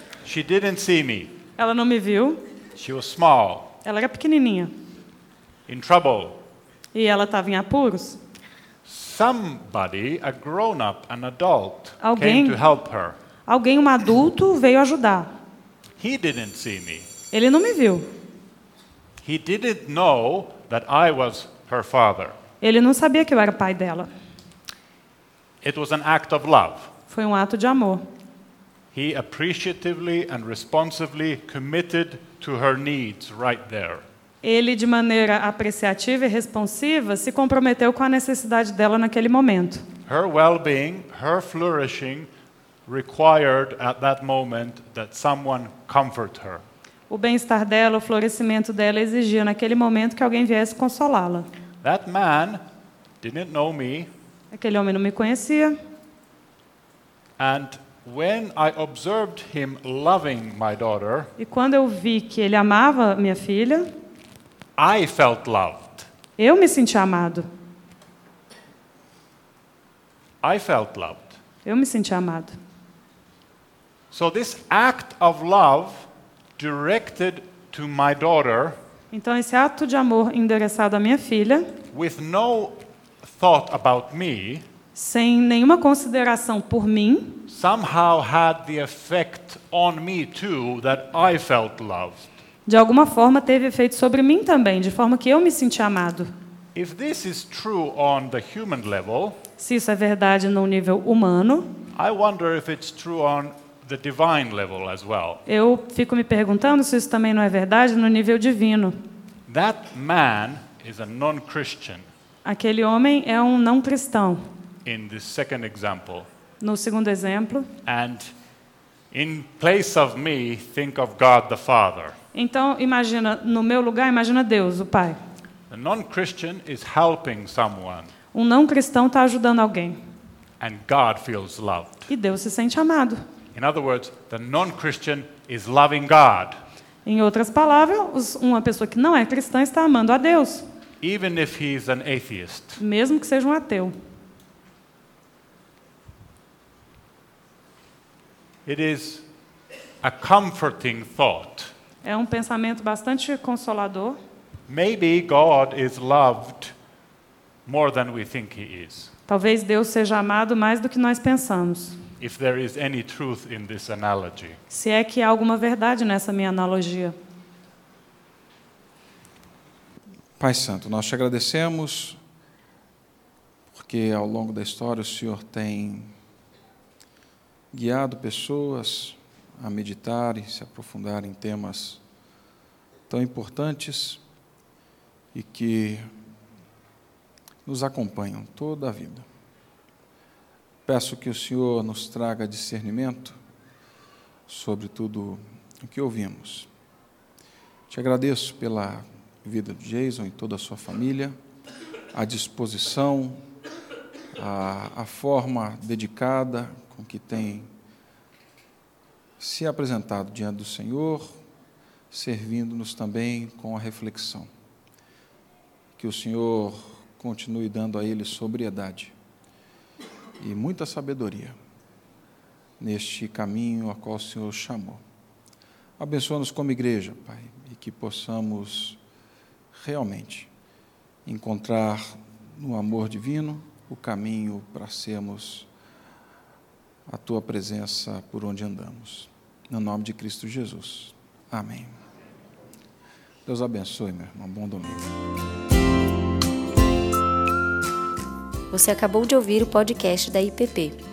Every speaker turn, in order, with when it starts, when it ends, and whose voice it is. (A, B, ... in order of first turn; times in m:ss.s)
0:00.2-0:01.4 A
0:01.6-0:02.4 B
0:02.8-0:03.7 A
0:03.8-0:04.7 B
0:05.7-0:06.4 A
0:06.9-0:08.2 B
0:08.8-0:13.2 A
0:12.0-0:12.6 B
0:13.4-0:15.3 B
0:16.0-0:17.1 A
0:17.3-0:18.1 B
0:19.2-0:22.3 A
0:22.6-0:24.1 B
0:25.6-0:26.9 A
0:27.1-0:28.0 B
0:28.9-0:34.0 A
0:34.4-0:39.8 B
0:40.1-0:42.3 A
0:42.9-0:46.6 A
0:47.1-0:51.5 B
0:51.8-0:52.6 A
0:53.2-0:54.1 A
0:54.5-0:55.8 B
0:57.4-1:01.3 A
1:01.4-1:03.9 B
1:04.8-1:06.1 A
1:06.4-1:07.4 B
1:10.4-1:11.4 A
1:11.6-1:12.6 B
1:14.1-1:18.8 A
1:19.1-1:21.7 B
1:21.9-1:24.6 A
1:25.0-1:27.4 B
1:27.5-1:32.3 A
1:32.7-1:36.3 B
1:36.7-1:39.4 A
1:39.6-1:41.7 B
1:42.0-1:45.4 A
1:45.4-1:48.9 B
1:49.5-1:52.1 A
1:52.4-1:54.4 B
1:54.8-1:56.3 A
1:56.6-1:57.7 B
1:57.8-1:58.3 A
1:59.1-2:02.2 A
2:02.3-2:05.2 B
2:05.7-2:08.1 A
2:08.3-2:10.0 B
2:10.6-2:12.1 A
2:12.1-2:13.2 B
2:13.5-2:16.6 A
2:17.0-2:20.6 B
2:21.0-2:22.8 A
2:22.8-2:23.9 B
2:28.6-2:29.2 A
2:30.0-2:31.7 A
2:32.0-2:34.2 B
2:34.7-2:36.7 A
2:37.6-2:39.1 A
2:39.3-2:42.0 B
2:42.2-2:44.6 A
2:44.7-2:47.1 B
2:50.4-2:52.2 C
2:53.7-2:56.1 C
2:57.7-3:02.0 C
3:03.1-3:04.2 C
3:05.3-3:06.1 C
3:07.6-3:09.2 C
3:10.8-3:13.4 C
3:14.5-3:16.7 C
3:17.9-3:21.4 C
3:22.1-3:23.4 C
3:24.3-3:27.7 C
3:29.4-3:31.4 C
3:32.1-3:34.5 C
3:36.0-3:39.1 C
3:40.4-3:41.6 C
3:42.8-3:45.0 C
3:46.0-3:49.0 C
3:49.7-3:50.5 C
3:51.2-3:55.7 C
3:57.1-4:02.0 C
4:03.4-4:05.1 C
4:08.7-4:11.0 D